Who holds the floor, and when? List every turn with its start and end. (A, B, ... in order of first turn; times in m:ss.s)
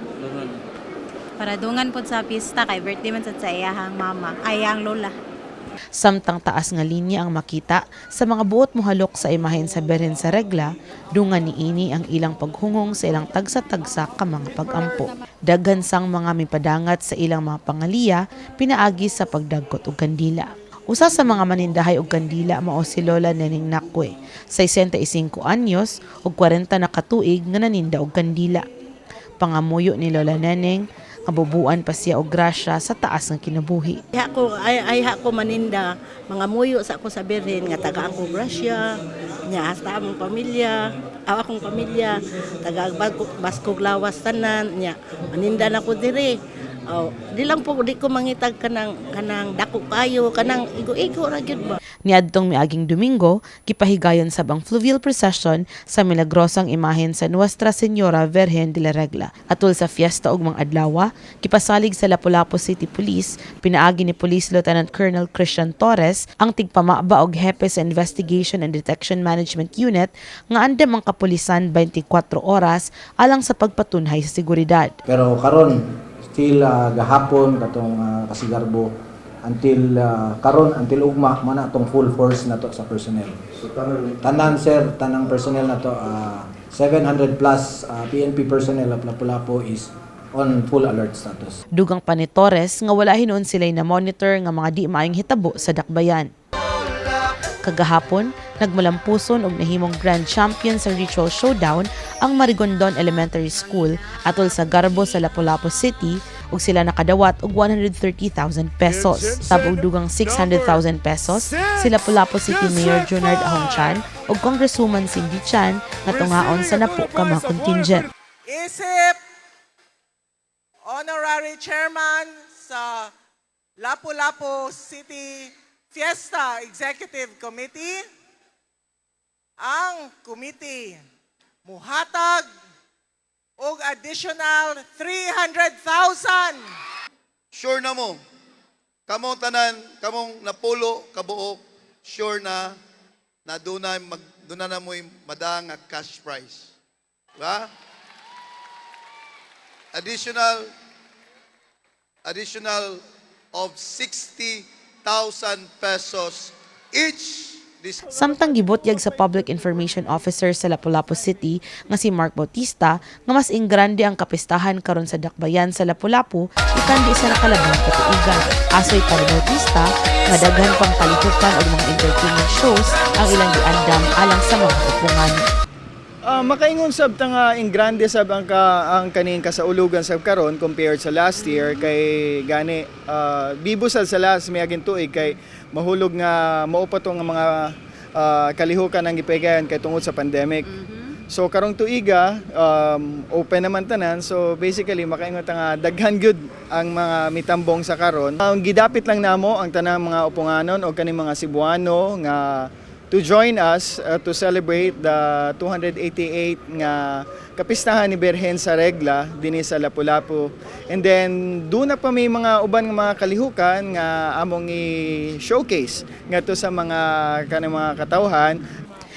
0:01.4-0:05.1 A
0:06.0-0:28.6 B
0:29.4-0:34.0 B
0:34.2-0:38.8 C
0:39.5-0:40.8 C
0:41.3-0:46.3 C
0:46.9-0:51.8 C
0:52.1-1:15.0 B
1:15.1-1:18.9 D
1:19.4-1:23.4 D
1:24.2-1:31.6 D
1:31.8-1:36.3 B
1:37.6-1:58.1 B
1:58.5-1:59.2 E
2:00.8-2:03.1 E
2:03.8-2:08.0 E
2:09.6-2:11.0 E
2:11.6-2:12.5 E
2:13.6-2:16.6 E
2:17.5-2:18.2 F
2:19.1-2:22.8 F
2:23.5-2:26.7 F
2:27.4-2:27.7 F
2:29.9-2:30.7 F
2:32.3-2:33.0 F
2:33.5-2:38.1 F
2:38.1-2:55.5 B
2:56.2-3:10.7 G
3:11.3-3:38.6 G